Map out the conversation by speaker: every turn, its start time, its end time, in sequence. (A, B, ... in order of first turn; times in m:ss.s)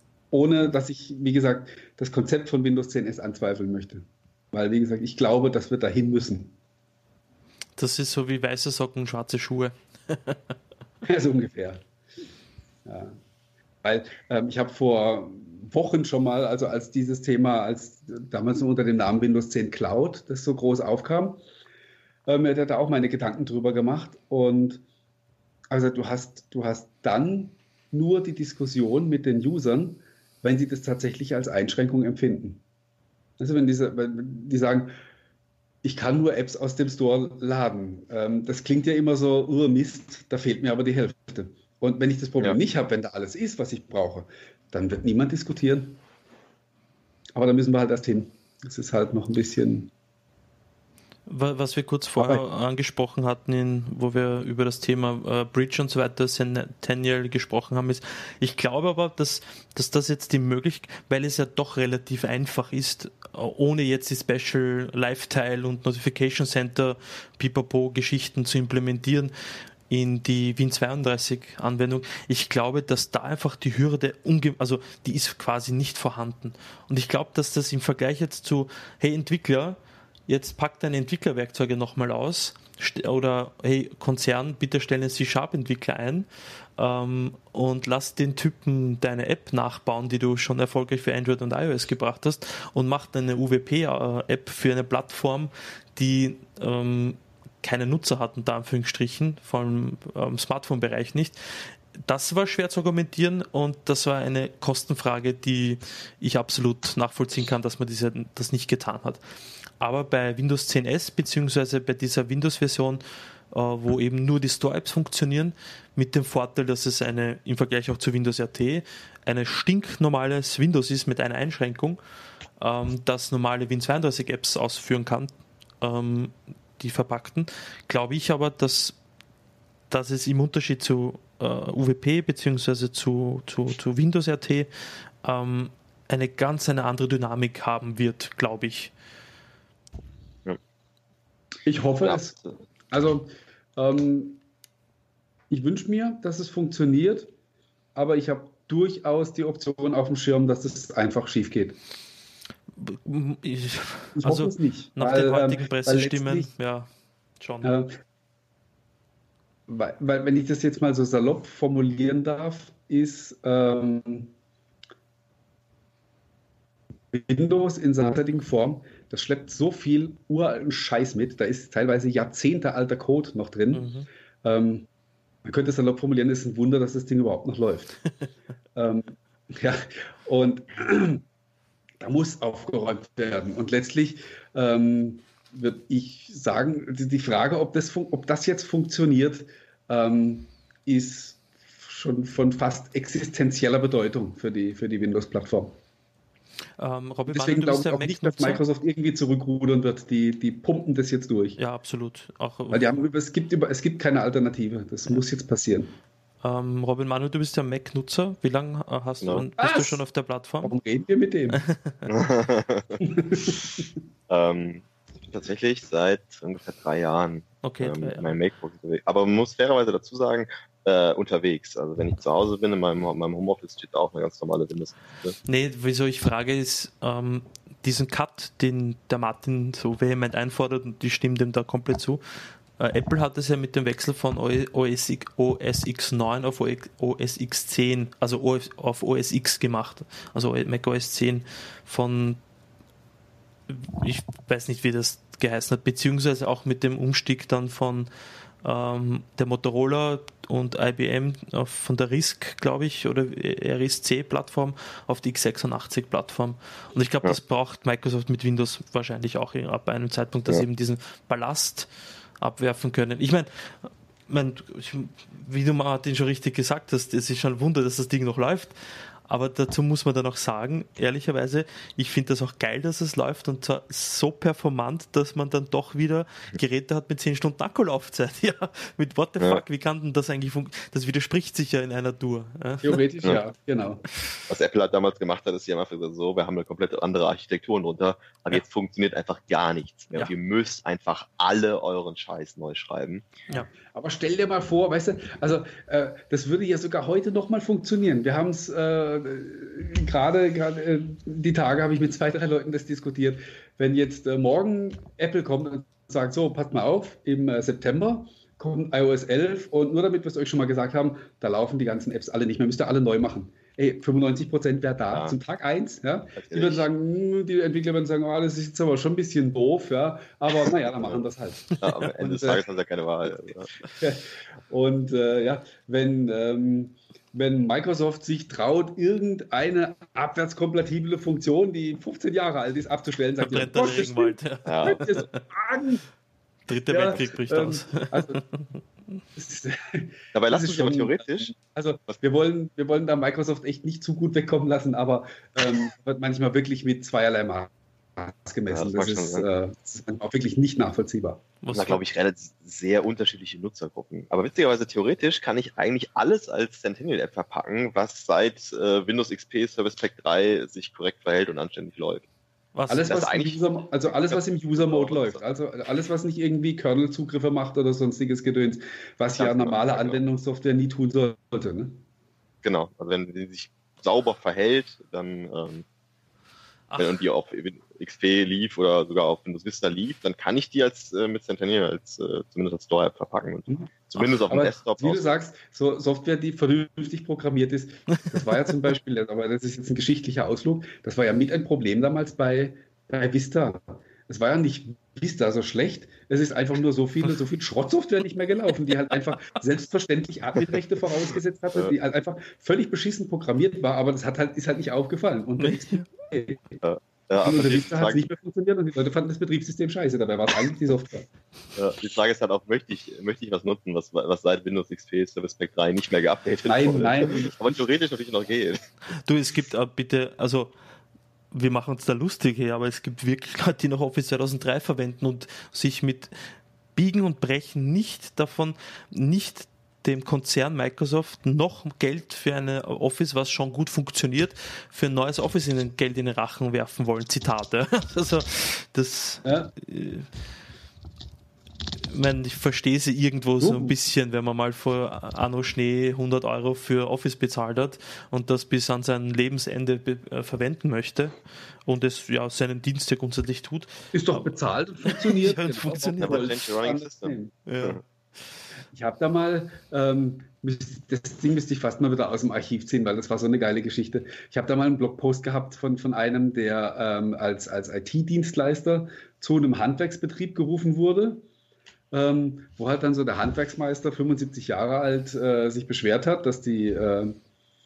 0:00.3-0:06.5 A
0:07.8-0:10.4 B
0:11.0-0:11.8 A
0:12.9-0:13.2 A
0:13.8-0:21.4 A
0:22.3-0:24.8 A
0:25.7-0:32.6 A
0:33.4-0:35.0 A
0:35.8-0:46.0 A
0:47.4-0:49.9 A
0:51.3-1:09.3 B
0:52.2-0:52.4 A
1:09.9-1:49.2 B
1:49.8-2:02.0 B
2:02.6-2:09.0 B
2:09.9-2:14.7 B
2:15.2-2:18.9 B
2:21.6-2:22.4 A
2:22.0-2:22.5 C
2:22.9-2:24.4 A
2:25.5-2:27.3 A
2:28.0-2:31.8 A
2:32.8-2:36.9 B
2:34.2-2:36.5 A
2:37.4-2:37.8 B
2:37.6-2:37.9 A
2:39.7-2:44.3 A
2:47.1-2:53.9 A
2:53.7-2:54.1 B
2:54.4-2:54.9 A
2:55.4-2:58.0 A
2:58.8-3:01.2 A
3:02.0-3:15.8 A
3:16.8-3:18.6 B
3:17.3-3:21.6 A
3:21.6-3:22.9 B
3:22.7-3:26.0 A
3:26.4-3:30.8 B
3:29.6-3:30.0 A
3:30.6-3:31.6 A
3:31.5-3:32.1 B
3:32.1-3:33.0 C
3:33.0-3:33.8 A
3:34.3-3:45.4 C
3:37.6-3:38.3 B
3:45.5-4:02.4 B
4:03.7-4:08.1 B
4:08.6-4:21.9 B
4:22.4-4:43.0 B
4:42.8-4:44.0 A
4:44.5-4:53.3 C
4:53.9-5:22.6 A
5:15.1-5:15.4 C
5:16.4-5:16.9 C
5:21.8-5:22.1 B
5:21.8-5:23.7 C
5:24.0-5:36.0 A
5:33.4-5:35.4 B
5:34.7-5:35.2 C
5:36.7-5:38.8 B
5:36.9-5:38.4 A
5:39.4-5:51.4 A
5:40.3-5:41.5 C
5:48.7-5:49.5 C
5:51.6-5:52.0 B
5:51.7-6:02.3 C
6:02.8-6:03.2 B
6:02.9-6:12.0 A
6:03.1-6:05.4 C
6:09.4-6:10.2 C
6:12.6-6:15.8 C
6:16.9-6:17.2 B
6:17.0-6:25.3 C
6:24.5-6:46.8 A
6:45.6-6:46.1 B
6:46.8-6:48.3 C
6:47.4-6:51.3 A
6:51.8-6:58.8 C
6:56.7-6:57.5 A
6:59.1-7:00.7 B
7:01.5-7:20.3 B
7:19.4-7:19.7 A
7:22.1-7:36.6 B
7:23.6-7:23.9 A
7:34.1-7:37.5 A
7:36.2-7:38.0 C
7:37.7-7:38.0 B
7:38.9-7:51.4 A
7:52.1-7:57.4 A